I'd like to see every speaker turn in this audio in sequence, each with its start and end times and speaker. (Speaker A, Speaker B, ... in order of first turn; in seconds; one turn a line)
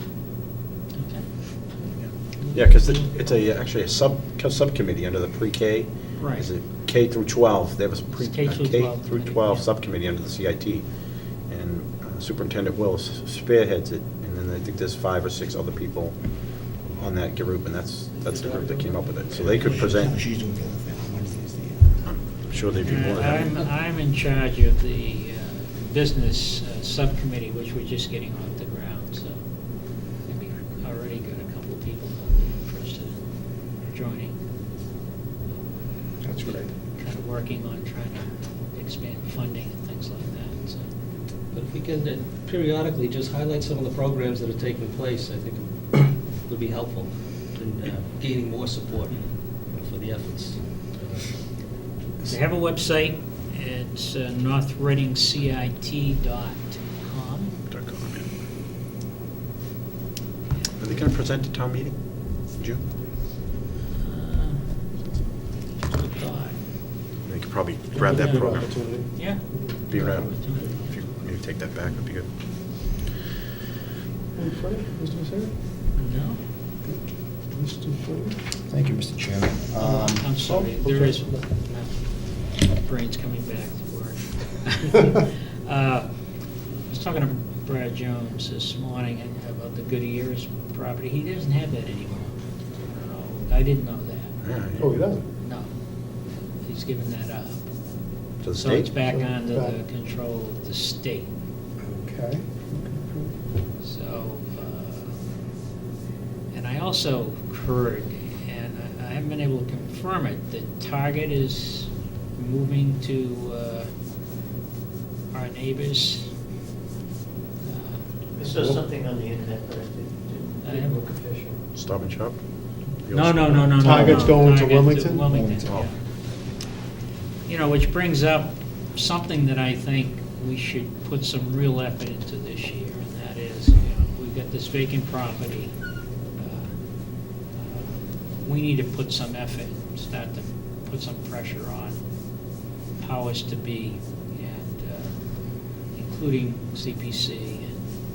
Speaker A: 0.9-1.8
Speaker B: 2.0-20.2
Speaker A: 2.5-3.2
Speaker A: 6.2-6.5
Speaker A: 8.2-9.7
Speaker C: 18.2-19.6
Speaker D: 19.9-21.1
Speaker B: 22.1-23.5
Speaker A: 22.8-34.4
Speaker C: 23.4-23.7
Speaker A: 36.1-40.9
Speaker E: 36.2-36.7
Speaker C: 41.5-52.4
Speaker A: 49.1-49.4
Speaker A: 52.2-57.6
Speaker B: 57.7-58.3
Speaker A: 60.5-60.8
Speaker B: 60.8-62.8
Speaker A: 64.0-65.0
Speaker A: 65.7-66.6
Speaker B: 67.2-68.9
Speaker E: 68.0-70.8
Speaker A: 69.1-69.6
Speaker C: 69.9-70.2
Speaker B: 69.9-72.3
Speaker A: 70.3-71.3
Speaker A: 71.8-72.1
Speaker E: 74.3-75.5
Speaker A: 75.9-76.4
Speaker E: 76.8-78.4
Speaker D: 78.7-80.4
Speaker A: 79.8-85.2
Speaker E: 80.4-81.5
Speaker A: 85.8-94.4
Speaker B: 94.4-95.1
Speaker E: 94.8-95.2
Speaker A: 95.4-97.7
Speaker B: 98.4-98.9
Speaker A: 98.5-101.3
Speaker E: 98.9-99.8
Speaker E: 101.8-103.3
Speaker A: 103.8-105.2
Speaker A: 106.5-113.9
Speaker A: 115.4-116.3
Speaker A: 117.6-118.1
Speaker F: 118.3-121.6
Speaker E: 118.5-118.8
Speaker A: 120.6-121.0
Speaker B: 121.7-124.0
Speaker A: 123.2-126.0
Speaker E: 123.8-125.3
Speaker D: 123.8-124.4
Speaker D: 125.3-125.9
Speaker B: 125.6-125.9
Speaker A: 127.5-135.8
Speaker A: 136.3-147.8